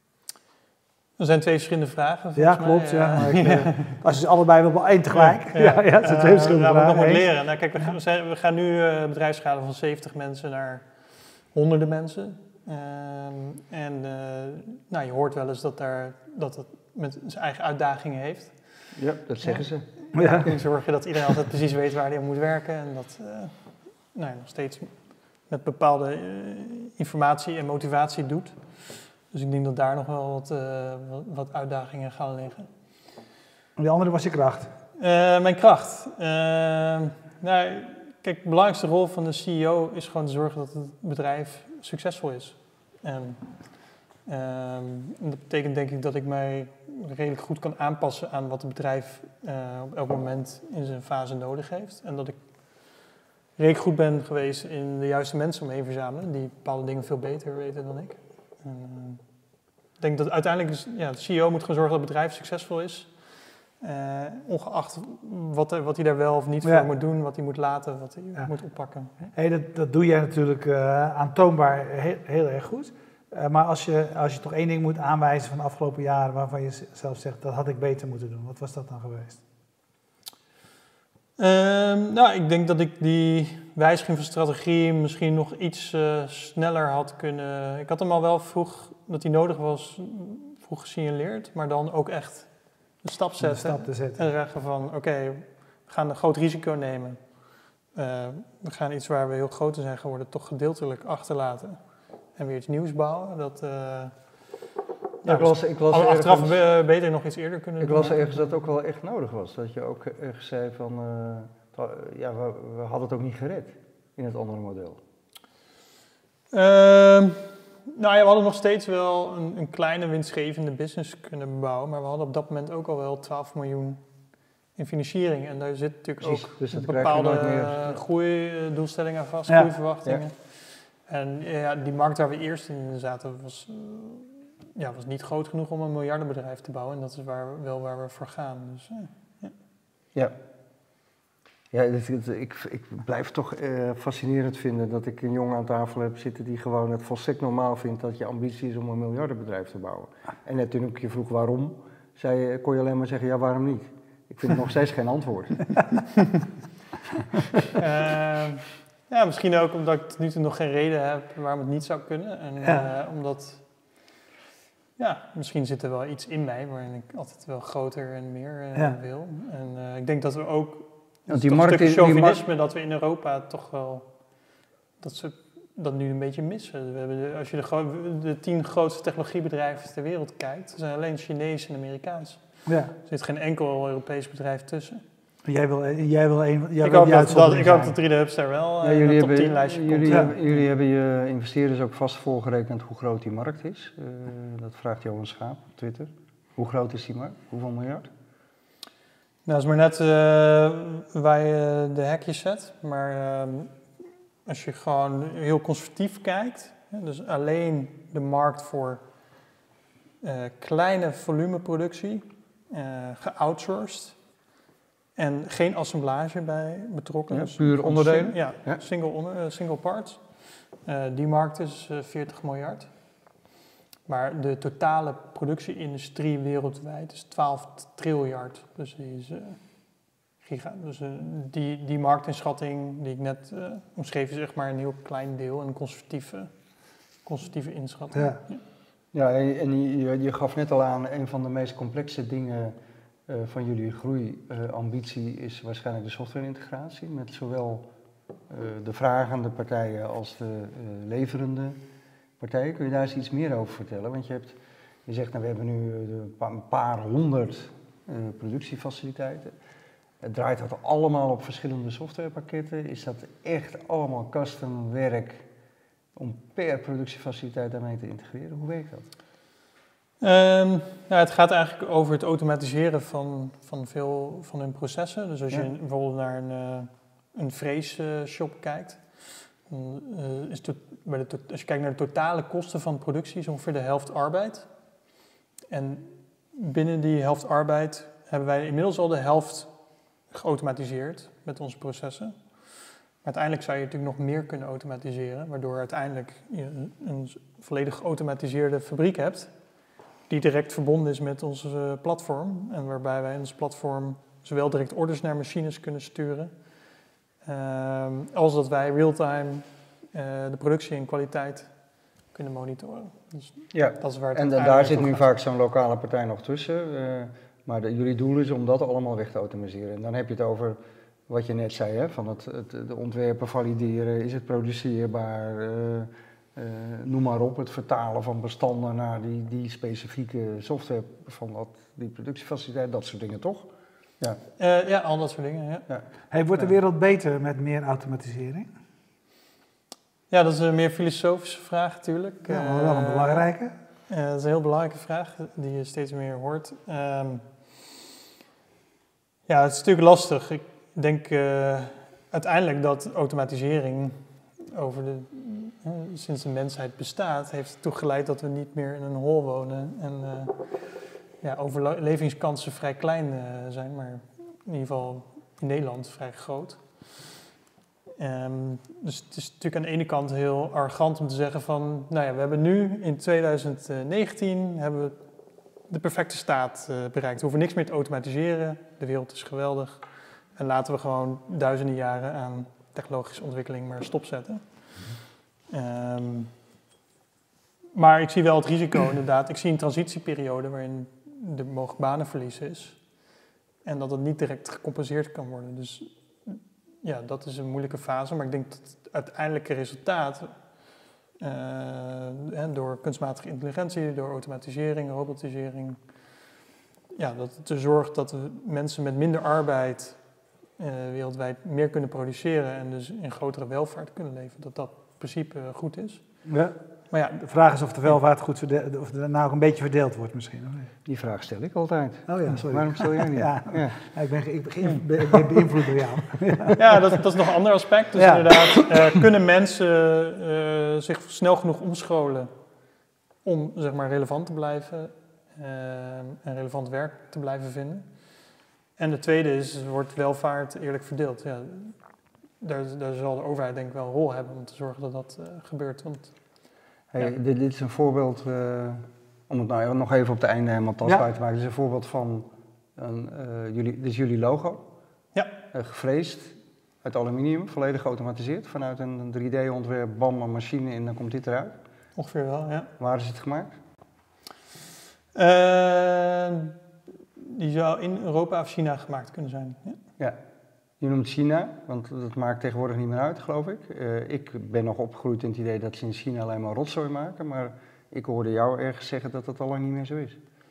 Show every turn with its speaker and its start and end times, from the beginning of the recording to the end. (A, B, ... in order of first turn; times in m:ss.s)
0:01.2-0:03.9 A
0:02.4-0:07.9 B
0:05.1-0:32.7 A
0:18.9-0:20.6 C
0:20.1-0:20.5 B
0:33.8-0:34.7 B
0:35.0-0:53.0 A
0:53.6-0:59.3 A
1:00.0-1:09.3 A
1:06.6-1:06.9 B
1:09.3-1:19.4 B
1:21.4-1:41.8 A
1:33.4-1:34.2 B
1:42.3-1:44.5 A
1:45.2-1:48.4 A
1:45.2-1:46.6 C
1:47.8-1:55.0 C
1:56.5-2:04.0 A
2:04.7-2:19.5 A
2:06.2-2:08.0 C
2:09.5-2:09.7 B
2:21.7-2:36.0 C
2:37.8-2:43.7 A
2:45.0-2:54.5 A
2:51.3-2:52.4 C
2:55.0-3:05.0 A
3:02.6-3:02.9 B
3:05.4-3:08.0 B
3:06.8-3:10.4 A
3:08.8-3:18.1 C
3:10.1-3:10.3 B
3:19.4-3:23.8 A
3:24.4-3:29.0 A
3:30.2-3:34.2 A
3:35.2-3:42.9 A
3:37.3-3:38.8 C
3:44.1-3:49.7 A
3:50.4-3:58.6 A
3:58.1-3:58.4 B
3:59.1-4:02.8 C
4:03.3-4:07.9 C
4:08.5-4:11.8 C
4:12.4-4:19.5 C
4:20.2-4:25.5 C
4:26.2-4:29.1 C
4:30.2-4:44.7 A
4:45.7-4:49.8 A
4:50.3-4:59.6 A
5:00.3-5:06.5 A
5:07.4-5:11.8 A
5:12.3-5:15.3 A
5:13.7-5:33.7 C
5:34.6-5:35.9 A
5:35.9-5:36.7 C
5:36.3-5:38.7 B
5:40.3-5:43.5 A
5:42.5-5:43.7 B
5:44.1-5:47.5 A
5:49.5-6:07.3 A
6:08.2-6:15.2 A
6:15.8-6:25.0 A
6:25.7-6:26.5 A
6:27.9-6:33.2 A
6:33.8-6:40.8 A
6:41.4-6:46.0 A
6:47.1-6:56.2 A
6:56.4-6:56.7 B
6:57.1-6:57.4 A
6:57.3-7:00.9 B
7:01.0-7:04.0 C
7:02.3-7:06.8 B
7:06.8-7:12.5 A
7:08.1-7:09.2 B
7:13.4-7:22.0 A
7:22.6-7:26.4 A
7:27.1-7:34.8 C
7:35.7-7:41.8 C
7:42.2-7:42.9 A
7:43.0-7:43.7 C
7:45.3-7:46.7 A
7:47.4-7:50.0 A
7:51.0-8:00.4 C